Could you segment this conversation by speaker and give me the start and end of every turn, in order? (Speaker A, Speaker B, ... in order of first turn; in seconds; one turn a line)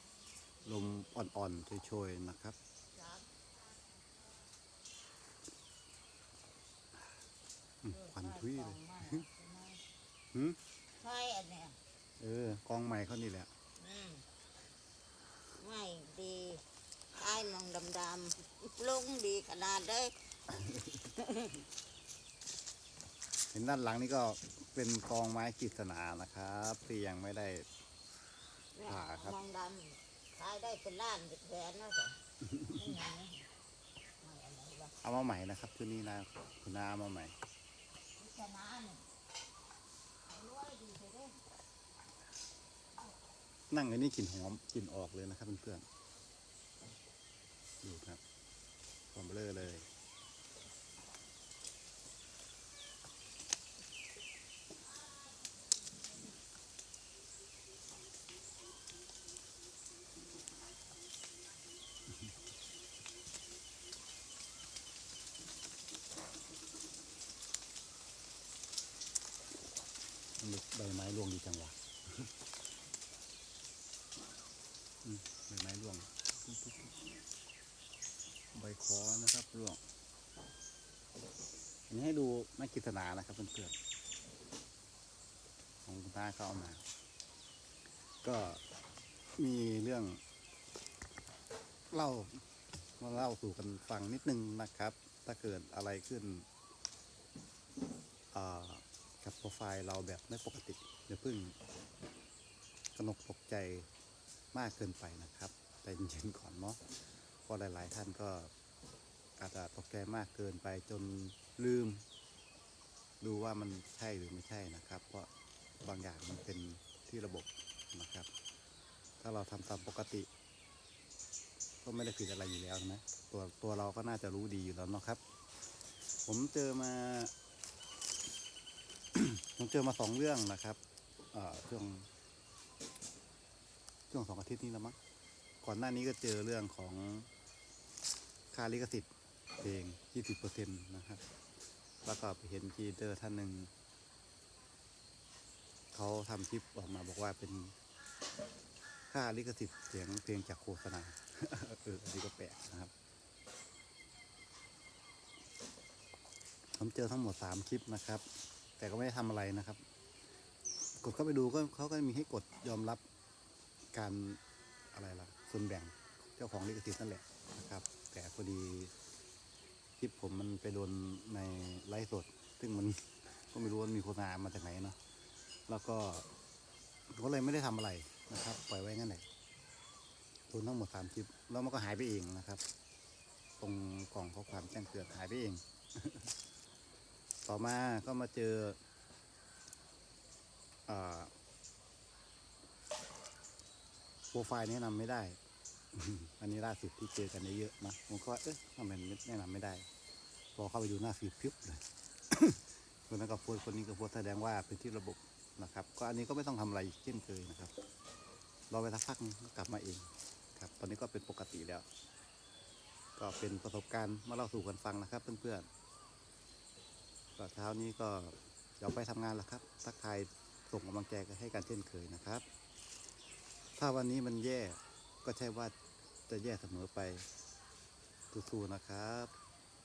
Speaker A: 0.7-2.6
Speaker B: 2.9-3.3
Speaker A: 7.8-9.2
Speaker B: 7.9-9.8
Speaker A: 10.3-10.6
Speaker B: 11.0-11.8
Speaker A: 12.2-13.5
Speaker B: 13.8-14.2
Speaker B: 15.6-16.6
Speaker B: 17.1-20.1
Speaker A: 20.5-21.1
Speaker B: 21.2-21.6
Speaker A: 23.5-27.6
Speaker B: 28.8-33.5
Speaker A: 28.9-29.4
Speaker B: 34.2-34.9
Speaker A: 35.0-37.3
Speaker B: 38.2-39.0
Speaker B: 40.3-41.4
Speaker A: 43.7-45.9
Speaker A: 47.8-48.2
Speaker A: 49.1-49.9
Speaker A: 70.4-72.3
Speaker A: 75.0-77.1
Speaker A: 78.5-79.8
Speaker A: 81.9-83.8
Speaker A: 85.9-86.8
Speaker A: 88.2-88.6
Speaker A: 89.4-90.2
Speaker A: 91.9-92.4
Speaker A: 93.0-96.5
Speaker A: 98.3-101.5
Speaker A: 103.0-103.9
Speaker A: 104.5-106.8
Speaker A: 107.5-108.5
Speaker A: 109.4-112.0
Speaker A: 113.2-115.3
Speaker A: 115.8-118.3
Speaker A: 119.2-120.3
Speaker A: 121.8-125.2
Speaker A: 126.2-127.3
Speaker A: 129.1-130.8
Speaker A: 131.3-132.1
Speaker A: 134.1-135.0
Speaker A: 135.6-137.3
Speaker A: 138.5-139.1
Speaker A: 139.6-141.2
Speaker A: 142.0-143.7
Speaker A: 145.9-147.7
Speaker A: 149.1-152.9
Speaker A: 156.8-158.2
Speaker A: 158.8-159.8
Speaker A: 161.0-163.0
Speaker A: 163.9-164.4
Speaker A: 164.9-168.9
Speaker A: 170.0-175.0
Speaker A: 175.7-176.2
Speaker A: 177.1-179.2
Speaker A: 180.5-182.6
Speaker A: 183.6-186.3
Speaker A: 187.4-188.8
Speaker A: 190.9-191.3
Speaker A: 194.3-195.4
Speaker A: 195.9-199.9
Speaker A: 200.6-207.7
Speaker A: 208.7-211.8
Speaker A: 213.2-215.7
Speaker A: 217.4-222.4
Speaker A: 223.8-225.7
Speaker A: 226.3-227.2
Speaker A: 228.3-229.3